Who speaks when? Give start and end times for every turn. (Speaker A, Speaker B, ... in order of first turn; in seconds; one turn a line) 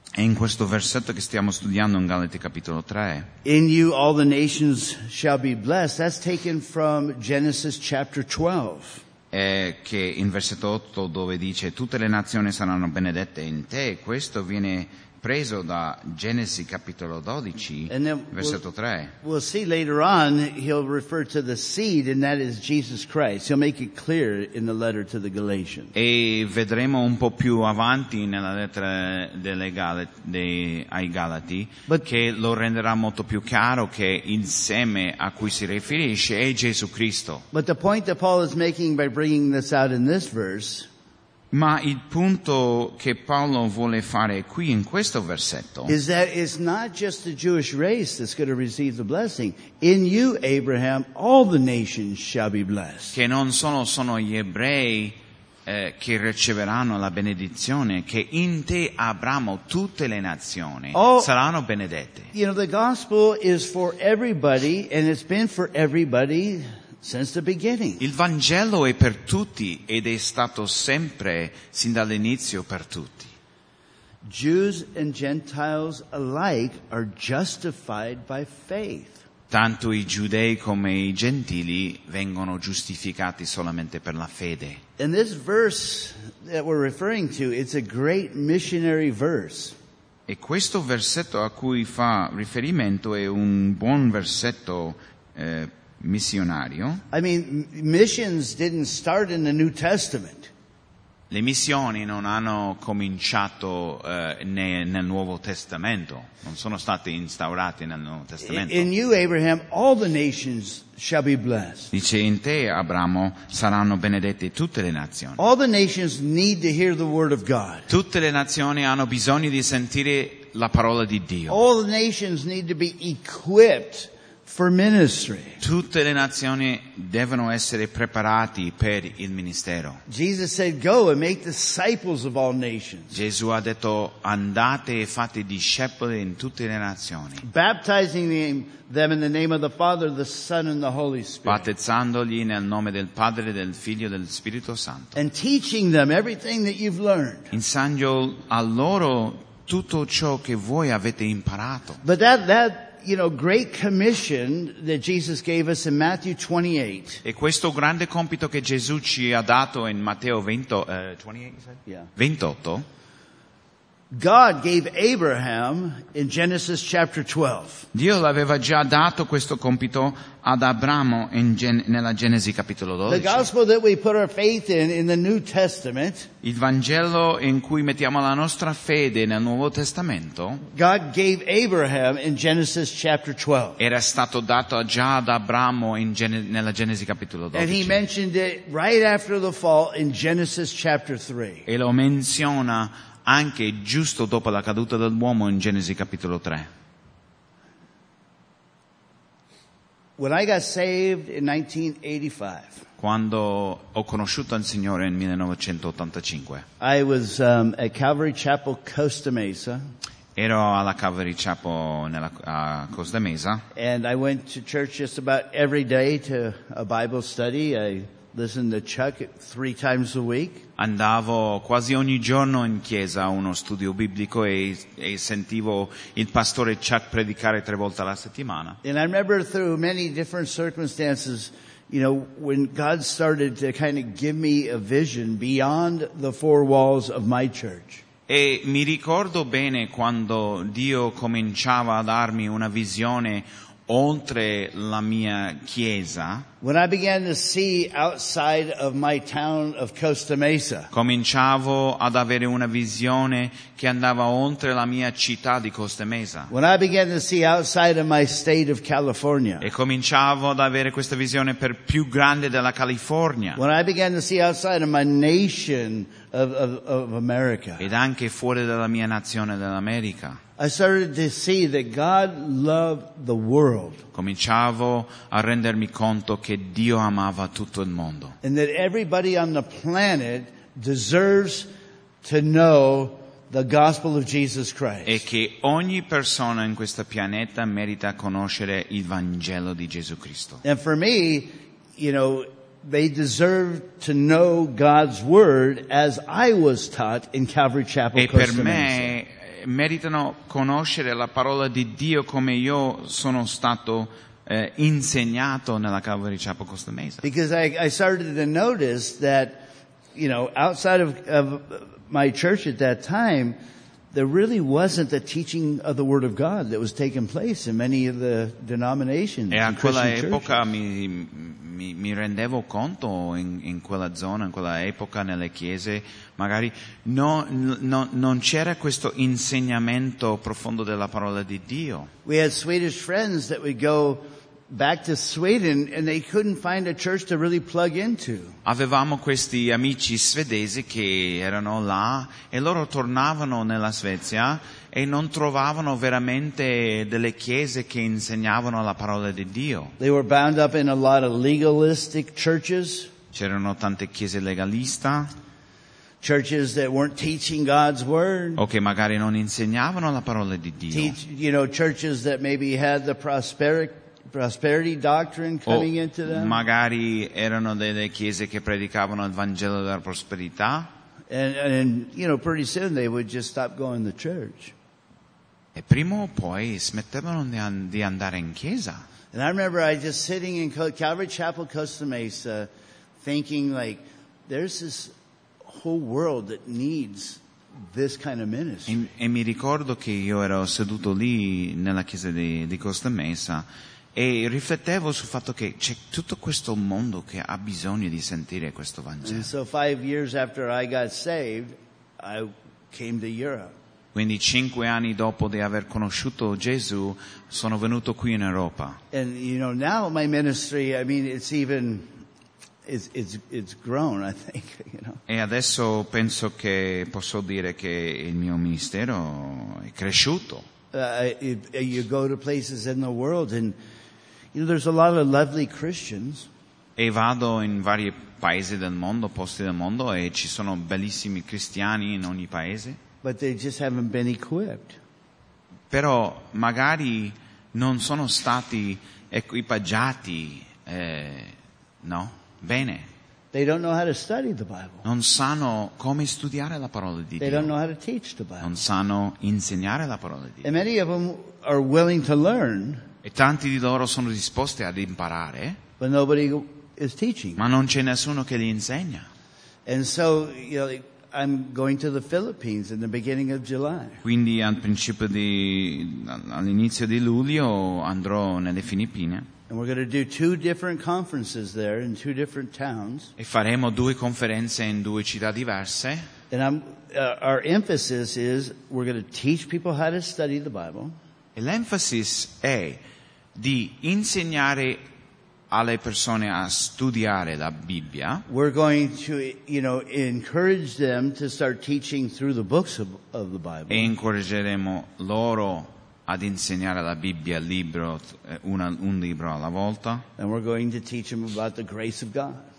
Speaker A: 0.2-3.3
Speaker B: 3.5-9.0
Speaker A: 9.3-19.1
Speaker B: 17.9-18.6
Speaker B: 19.2-25.9
Speaker A: 25.9-37.5
Speaker B: 37.5-40.9
Speaker A: 41.5-46.0
Speaker B: 45.9-53.2
Speaker A: 53.1-62.3
Speaker B: 60.9-61.3
Speaker B: 62.3-68.0
Speaker A: 68.0-73.3
Speaker B: 74.2-79.2
Speaker A: 79.5-84.8
Speaker B: 85.0-89.8
Speaker A: 90.3-97.0
Speaker B: 97.1-100.5
Speaker A: 101.3-108.9
Speaker B: 108.4-111.9
Speaker A: 111.9-115.4
Speaker B: 115.4-117.9
Speaker A: 117.9-121.6
Speaker B: 121.5-125.6
Speaker A: 125.6-130.0
Speaker B: 130.1-133.2
Speaker A: 133.1-137.4
Speaker B: 137.4-141.7
Speaker A: 141.5-145.2
Speaker B: 145.2-147.5
Speaker A: 147.5-152.0
Speaker B: 152.0-157.2
Speaker A: 157.2-162.9
Speaker B: 164.1-167.9
Speaker A: 167.9-173.5
Speaker B: 173.1-176.3
Speaker A: 176.4-180.6
Speaker B: 180.7-183.8
Speaker A: 183.8-188.0
Speaker B: 187.5-191.7
Speaker A: 191.7-196.7
Speaker B: 200.2-202.8
Speaker A: 203.0-206.7
Speaker B: 206.8-209.8
Speaker A: 210.4-213.6
Speaker B: 213.8-220.7
Speaker A: 220.8-228.8
Speaker B: 228.8-238.0
Speaker A: 238.3-246.5
Speaker B: 246.6-250.9
Speaker A: 250.9-256.5
Speaker B: 256.5-259.7
Speaker A: 259.6-263.6
Speaker B: 263.6-267.9
Speaker A: 267.8-270.4
Speaker B: 270.6-274.0
Speaker A: 274.1-278.4
Speaker B: 278.4-281.7
Speaker B: 282.2-285.2
Speaker A: 285.1-290.6
Speaker B: 290.6-299.2
Speaker A: 298.2-307.2
Speaker B: 307.2-313.6
Speaker B: 314.1-320.6
Speaker A: 319.5-332.1
Speaker B: 332.2-338.6
Speaker A: 338.6-349.9
Speaker B: 350.0-353.1
Speaker A: 353.3-355.3
Speaker B: 356.2-358.6
Speaker A: 358.6-361.2
Speaker B: 360.9-366.6
Speaker A: 365.7-370.9
Speaker B: 371.3-374.7
Speaker A: 375.8-379.0
Speaker B: 379.3-382.7
Speaker B: 383.2-385.1
Speaker B: 385.6-389.1
Speaker A: 388.9-399.5
Speaker B: 399.2-403.7
Speaker A: 404.1-409.0
Speaker B: 409.1-412.2
Speaker B: 412.9-415.2
Speaker A: 415.3-420.7
Speaker B: 420.9-423.8
Speaker B: 424.5-426.5
Speaker A: 427.0-433.0
Speaker B: 433.2-435.0
Speaker A: 435.9-443.1
Speaker B: 443.5-445.1
Speaker A: 445.1-447.7
Speaker B: 447.4-448.7
Speaker A: 448.6-450.7
Speaker B: 450.6-453.1
Speaker A: 453.2-455.8
Speaker B: 456.0-457.6
Speaker A: 457.6-459.3
Speaker B: 459.9-464.2
Speaker A: 464.2-469.5
Speaker B: 469.7-473.3
Speaker A: 473.4-476.3
Speaker B: 476.5-481.1
Speaker A: 481.6-483.0
Speaker A: 483.6-485.0
Speaker A: 485.7-488.4
Speaker B: 488.5-494.1
Speaker A: 493.9-500.2
Speaker B: 500.4-502.7